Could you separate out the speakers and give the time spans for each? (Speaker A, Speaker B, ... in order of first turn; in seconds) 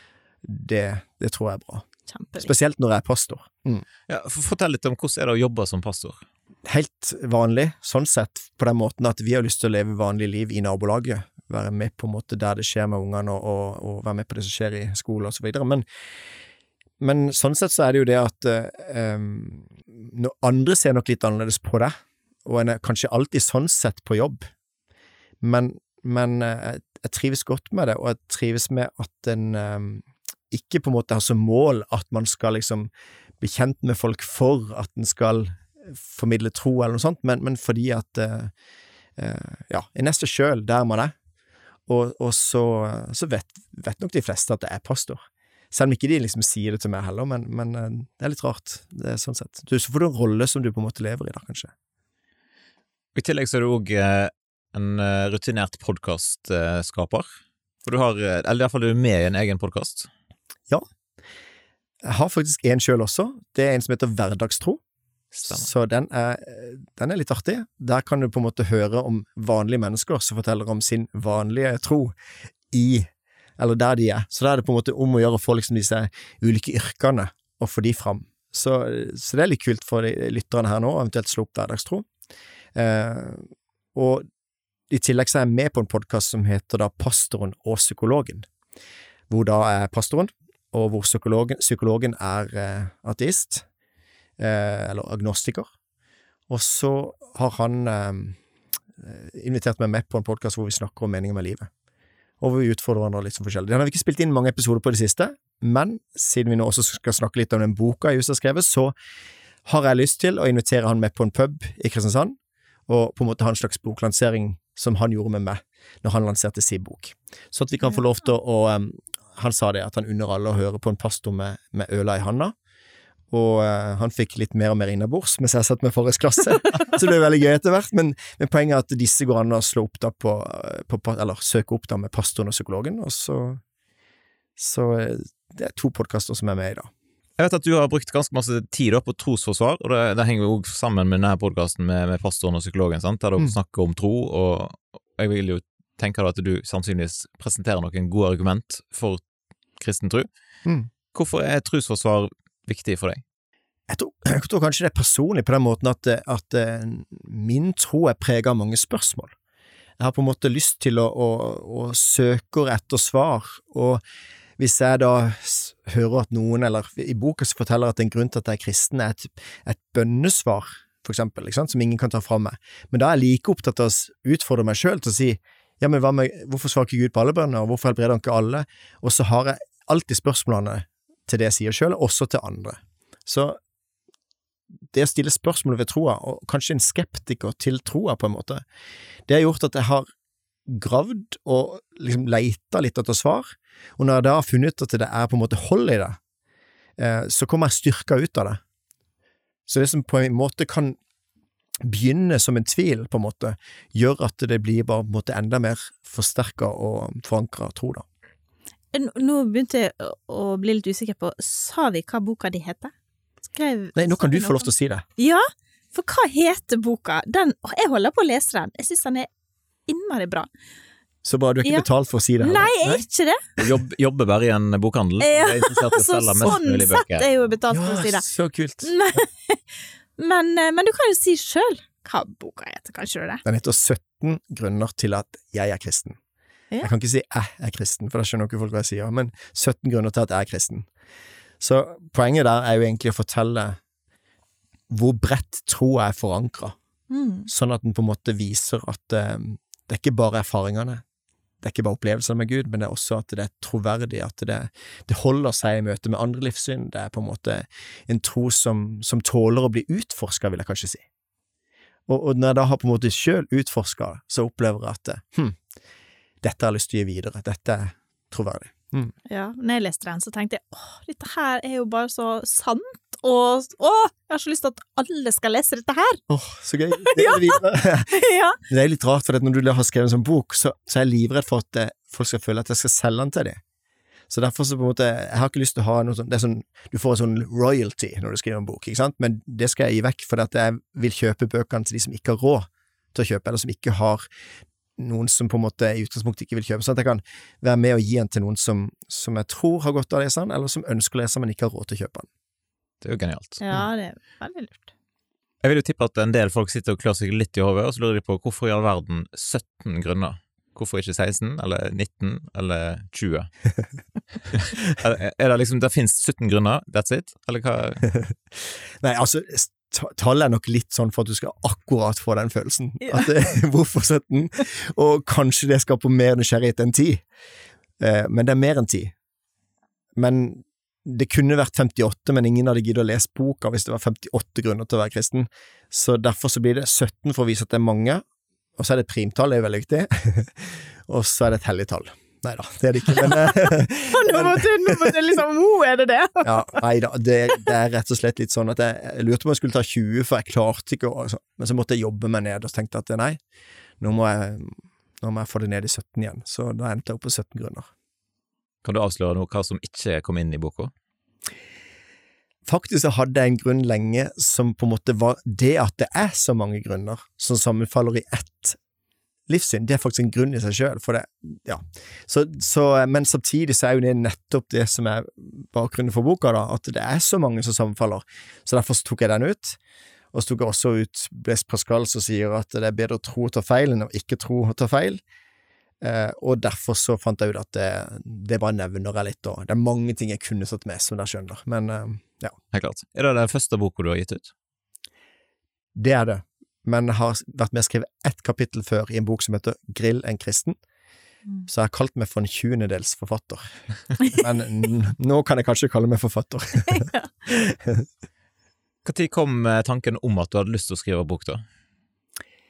Speaker A: 0.4-1.8, 2.4-3.8, 6.6-15.8, 17.0-21.9, 22.4-24.5, 25.4-38.5, 39.2-41.1, 41.9-45.2, 45.7-51.7, 62.0-64.8, 65.4-72.1, 72.7-82.0, 82.7-84.2, 84.9-88.5, 89.3-93.7, 94.4-95.7, 96.5-98.4, 99.0-101.7, 102.4-108.9, 109.7-122.5, 123.3-133.6, 134.6-136.9, 153.9-159.3, 160.0-164.0, 164.6-183.6, 184.9-188.6, 189.3-190.1, 190.7-196.2, 197.0-198.6, 199.7-201.0, 201.8-208.1, 213.9-215.0, 221.2-222.7, 227.7-228.9, 233.4-236.2, 236.8-240.9, 241.6-243.8, 244.9-246.8, 247.5-251.0, 251.6-261.0, 262.1-265.6, 266.4-269.1, 276.3-283.6, 284.3-294.2, 295.0-302.3, 318.1-327.2, 328.0-329.1, 330.1-338.2, 338.8-345.4, 346.4-353.4, 354.0-357.9, 362.6-368.8, 369.5-379.8, 380.3-385.2, 386.0-392.6, 395.9-400.8, 401.7-403.7, 404.2-408.1
Speaker B: 2.1-2.5, 208.9-212.9, 213.5-219.3, 219.9-220.5, 222.4-223.5, 225.2-228.3, 228.8-229.6, 230.2-233.4, 247.1-247.5, 269.3-276.2, 277.0-278.6, 303.6-304.9, 323.0-323.3, 343.2-346.7, 406.9-407.3
Speaker C: 4.1-6.2, 53.1-57.3, 57.8-60.1, 65.3-65.7, 137.4-149.2, 149.8-150.3, 151.1-153.2, 223.6-227.3, 303.0-303.6, 305.6-313.5, 314.5-318.0, 358.8-360.9, 392.7-394.5, 409.0-411.6